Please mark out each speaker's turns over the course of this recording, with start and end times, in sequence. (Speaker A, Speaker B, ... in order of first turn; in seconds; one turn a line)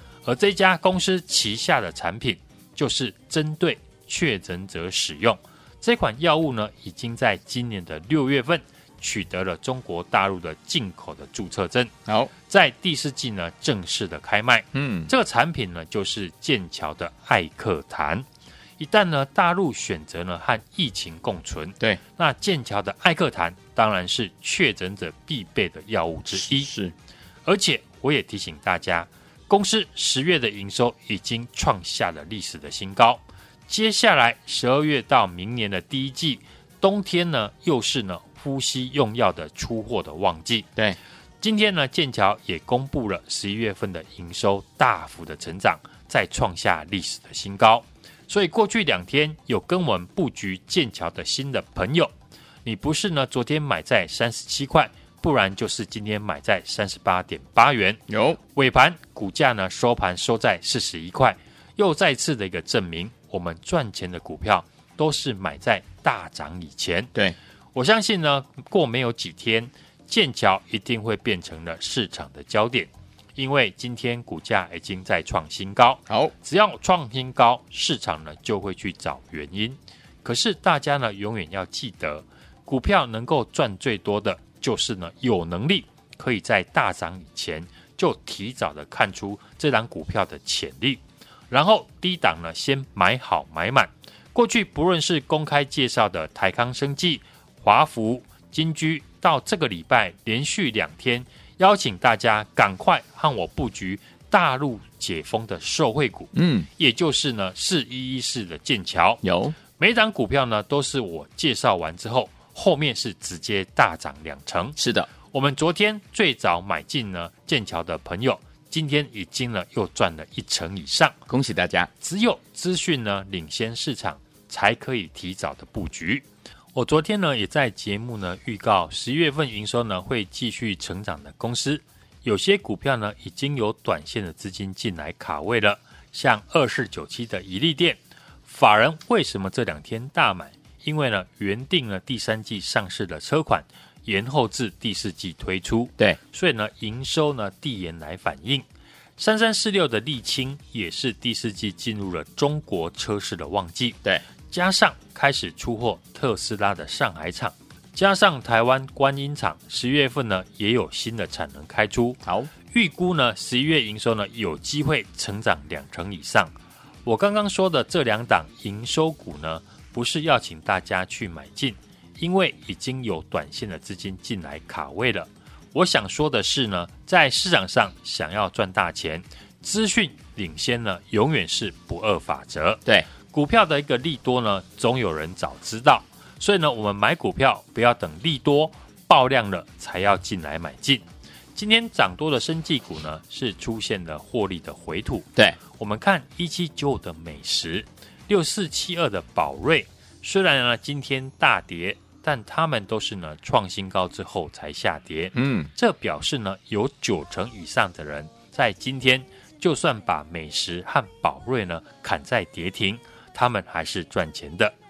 Speaker A: 0.2-11.9
Speaker A: 12.5-18.3
Speaker B: 14.7-15.1
Speaker A: 18.8-26.7
Speaker B: 26.4-26.9
Speaker A: 27.5-40.7
Speaker A: 41.4-52.1
Speaker A: 52.6-58.0
Speaker B: 58.1-58.4
Speaker A: 58.5-67.1
Speaker A: 67.7-109.2
Speaker B: 106.3-106.7
Speaker B: 109.2-109.5
Speaker A: 109.8-114.8
Speaker B: 114.8-115.1
Speaker A: 115.3-121.2
Speaker B: 121.3-121.9
Speaker A: 122.0-148.7
Speaker A: 149.2-162.2
Speaker B: 162.2-162.5
Speaker A: 162.7-166.5
Speaker A: 167.1-191.0
Speaker A: 191.6-214.8
Speaker B: 205.3-205.7